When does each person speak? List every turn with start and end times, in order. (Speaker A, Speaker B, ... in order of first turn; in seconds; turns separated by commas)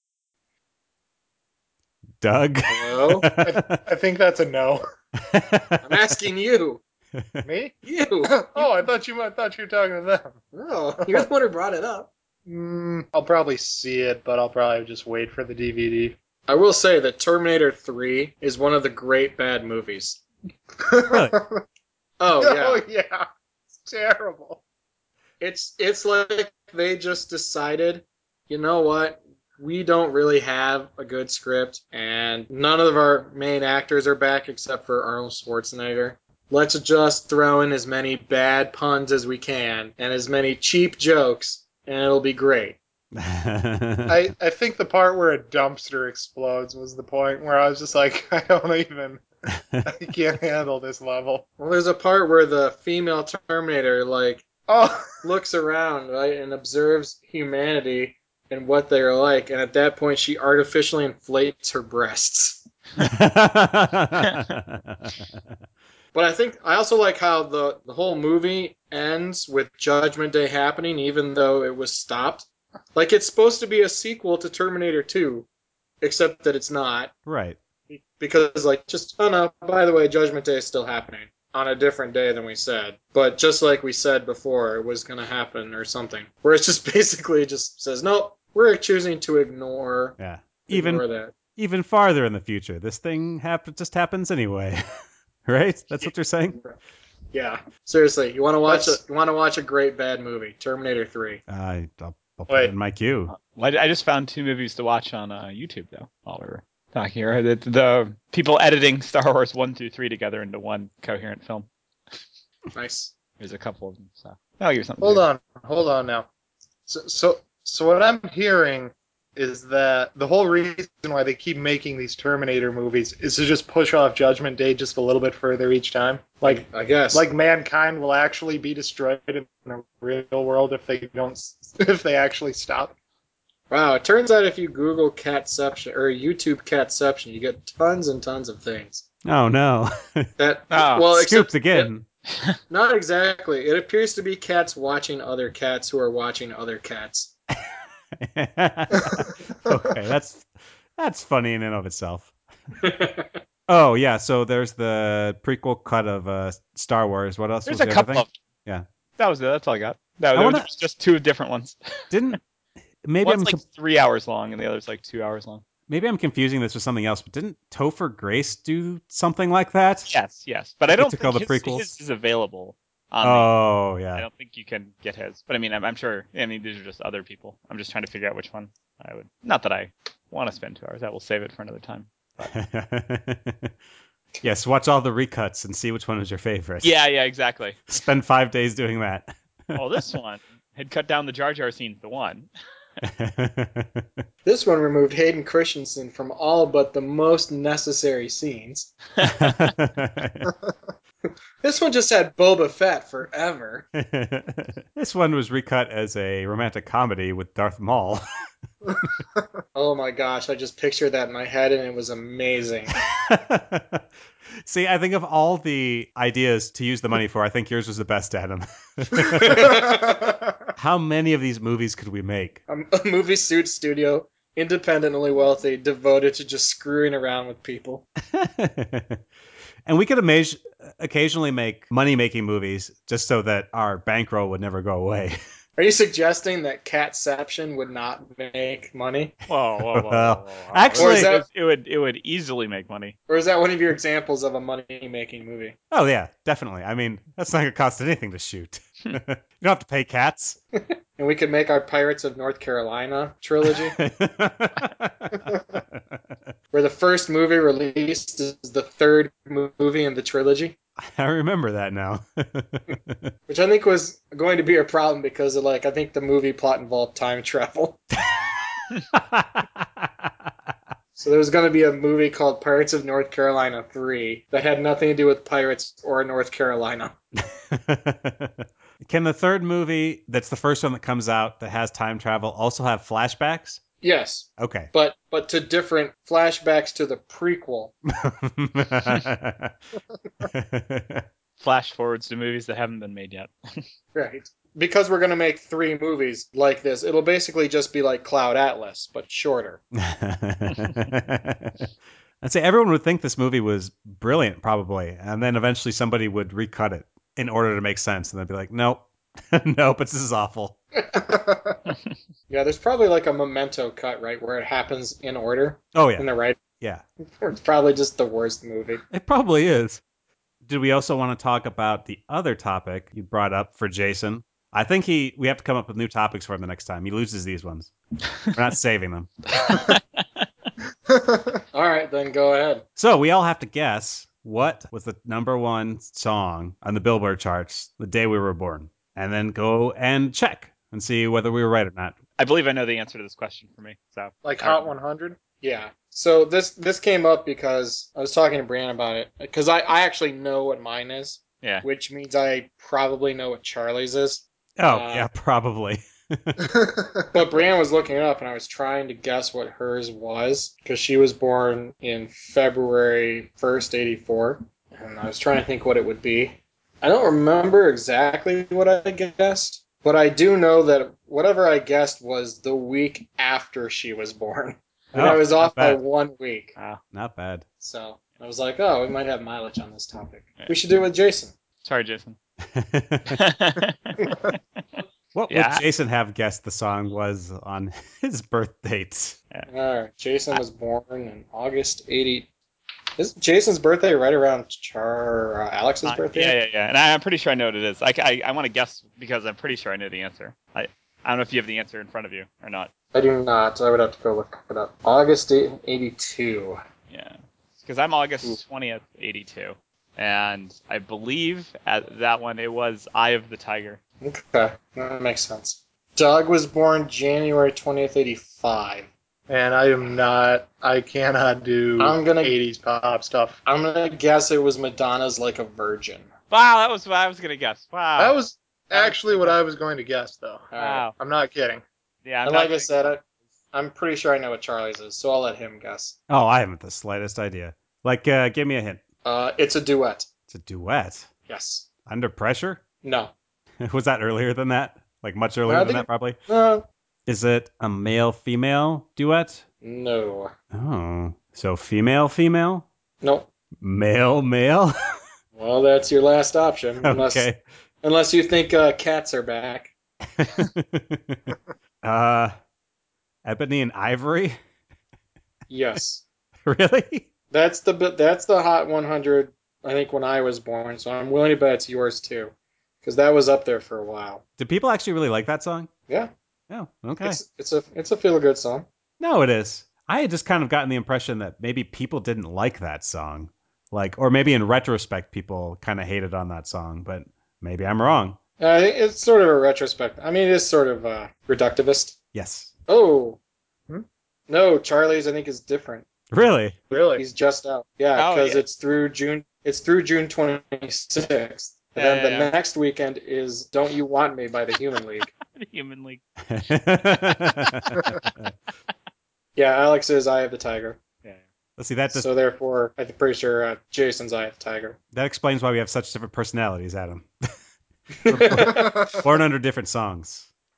Speaker A: 2.2-3.8, Speaker B: 2.7-3.3, Speaker C: 3.4-4.8, Speaker A: 5.3-5.8, Speaker B: 5.8-6.8, Speaker A: 7.2-7.5, Speaker C: 7.4-10.4, Speaker B: 7.8-8.8, Speaker B: 10.5-12.1, Speaker C: 11.0-11.3, Speaker C: 12.5-16.2, Speaker B: 16.5-20.2, Speaker C: 20.8-21.6, Speaker A: 21.1-21.4, Speaker B: 22.2-22.8, Speaker C: 22.4-23.3, Speaker C: 23.8-24.6, Speaker B: 25.4-42.8, Speaker A: 43.1-44.2, Speaker C: 44.1-49.2, Speaker C: 49.8-51.5, Speaker B: 51.6-54.5, Speaker C: 54.7-55.2, Speaker B: 55.2-62.6, Speaker A: 63.0-65.2, Speaker B: 66.1-75.5, Speaker B: 76.0-77.1, Speaker A: 77.3-77.6, Speaker B: 77.9-90.2, Speaker A: 90.2-91.0, Speaker B: 90.7-91.3, Speaker A: 91.6-94.8, Speaker A: 95.5-96.6, Speaker B: 96.0-96.8, Speaker B: 97.3-101.4, Speaker C: 98.7-99.0, Speaker A: 101.5-103.3, Speaker D: 103.3-111.7, Speaker B: 112.8-113.1, Speaker D: 113.4-115.2, Speaker C: 115.0-116.3, Speaker C: 116.9-132.9, Speaker B: 126.4-127.2, Speaker B: 133.7-139.1, Speaker A: 139.2-140.3, Speaker B: 140.4-141.9, Speaker D: 140.7-141.1, Speaker A: 141.1-142.1, Speaker B: 142.7-147.3, Speaker A: 148.2-152.3, Speaker B: 152.8-153.4, Speaker A: 153.7-158.9, Speaker D: 157.7-158.3, Speaker D: 159.2-161.8, Speaker A: 160.3-160.7, Speaker A: 162.1-162.4, Speaker A: 163.0-163.6, Speaker D: 163.2-165.6, Speaker A: 165.9-170.1, Speaker D: 170.1-173.5, Speaker A: 170.9-171.9, Speaker A: 173.2-174.3, Speaker D: 174.2-182.5, Speaker A: 182.4-183.7, Speaker A: 184.4-186.9, Speaker D: 186.8-187.9, Speaker A: 187.9-189.8, Speaker D: 189.8-192.5, Speaker A: 193.0-194.2, Speaker B: 194.4-198.9, Speaker D: 199.2-199.7, Speaker A: 199.2-200.5, Speaker B: 201.6-203.9, Speaker A: 203.9-208.2, Speaker B: 209.7-212.9, Speaker A: 213.1-214.1, Speaker A: 214.7-219.8, Speaker B: 219.3-220.3, Speaker C: 219.6-220.4, Speaker A: 220.8-222.6, Speaker B: 222.7-228.0, Speaker A: 228.3-229.2, Speaker A: 229.9-235.4, Speaker B: 235.8-239.4, Speaker D: 239.5-243.2, Speaker A: 239.9-241.3, Speaker B: 241.0-241.4, Speaker B: 243.3-245.8, Speaker A: 245.9-250.6, Speaker B: 250.8-254.0, Speaker A: 254.0-256.2, Speaker B: 256.7-260.8, Speaker A: 261.0-263.3, Speaker B: 263.5-268.0, Speaker A: 269.1-270.5, Speaker B: 271.2-277.1, Speaker A: 277.4-283.8, Speaker B: 284.0-287.9, Speaker A: 284.6-284.9, Speaker A: 288.1-289.8, Speaker A: 290.4-291.3, Speaker D: 291.6-293.8, Speaker B: 294.1-299.8, Speaker A: 299.9-301.9, Speaker A: 302.4-310.8, Speaker B: 311.1-311.8, Speaker B: 312.5-316.6, Speaker A: 315.9-316.3, Speaker B: 317.4-319.0, Speaker A: 319.1-320.0, Speaker A: 320.7-327.9, Speaker A: 328.4-329.3, Speaker D: 329.6-330.5, Speaker C: 331.1-331.5, Speaker B: 331.7-332.8, Speaker A: 333.0-342.2, Speaker D: 342.4-344.9, Speaker C: 344.4-345.4, Speaker B: 345.6-355.3, Speaker A: 354.8-356.7, Speaker C: 356.7-357.2, Speaker B: 357.3-376.8, Speaker A: 375.1-376.0, Speaker D: 376.8-377.0, Speaker A: 377.1-377.6, Speaker B: 377.8-381.5, Speaker D: 381.8-382.4, Speaker A: 382.6-383.4, Speaker D: 383.3-384.6, Speaker A: 385.4-389.4, Speaker D: 385.5-385.8, Speaker B: 389.7-392.5, Speaker B: 393.2-396.6, Speaker D: 396.1-402.9, Speaker B: 403.1-406.8, Speaker D: 407.1-414.0, Speaker B: 414.2-419.1, Speaker C: 419.5-423.6, Speaker B: 422.0-422.6, Speaker B: 423.6-426.3, Speaker D: 426.5-428.4, Speaker C: 428.2-431.8, Speaker D: 428.9-429.6, Speaker B: 430.7-431.1, Speaker D: 430.8-431.1, Speaker D: 432.2-433.0, Speaker B: 432.4-433.2, Speaker B: 433.7-436.2, Speaker A: 436.3-439.0, Speaker B: 439.2-440.3, Speaker A: 440.5-441.3, Speaker B: 441.5-441.9, Speaker A: 442.1-442.8, Speaker B: 443.0-443.3, Speaker A: 443.8-446.4, Speaker B: 445.7-446.9, Speaker A: 447.3-449.6, Speaker B: 449.8-450.5, Speaker A: 450.7-452.9, Speaker B: 453.2-453.5, Speaker A: 453.8-454.9, Speaker B: 455.6-457.5, Speaker A: 457.0-457.6, Speaker B: 458.0-459.9, Speaker A: 460.4-462.6, Speaker A: 463.4-464.6, Speaker B: 465.7-466.2, Speaker A: 466.7-467.3, Speaker B: 467.5-474.4, Speaker A: 474.6-475.9, Speaker A: 476.7-477.4, Speaker B: 477.2-478.9, Speaker A: 479.2-488.4, Speaker B: 488.6-492.1, Speaker A: 492.3-492.7, Speaker B: 492.9-493.4, Speaker B: 494.5-496.1, Speaker A: 496.3-496.8, Speaker C: 496.9-497.2, Speaker B: 497.2-505.3, Speaker D: 498.2-498.6, Speaker D: 502.0-502.5, Speaker D: 505.5-506.2, Speaker A: 506.5-508.5, Speaker D: 507.5-508.3, Speaker B: 509.6-511.0, Speaker A: 511.8-512.3, Speaker B: 512.1-515.0, Speaker A: 515.1-517.3, Speaker B: 518.2-518.9, Speaker A: 518.3-520.5, Speaker C: 518.6-519.2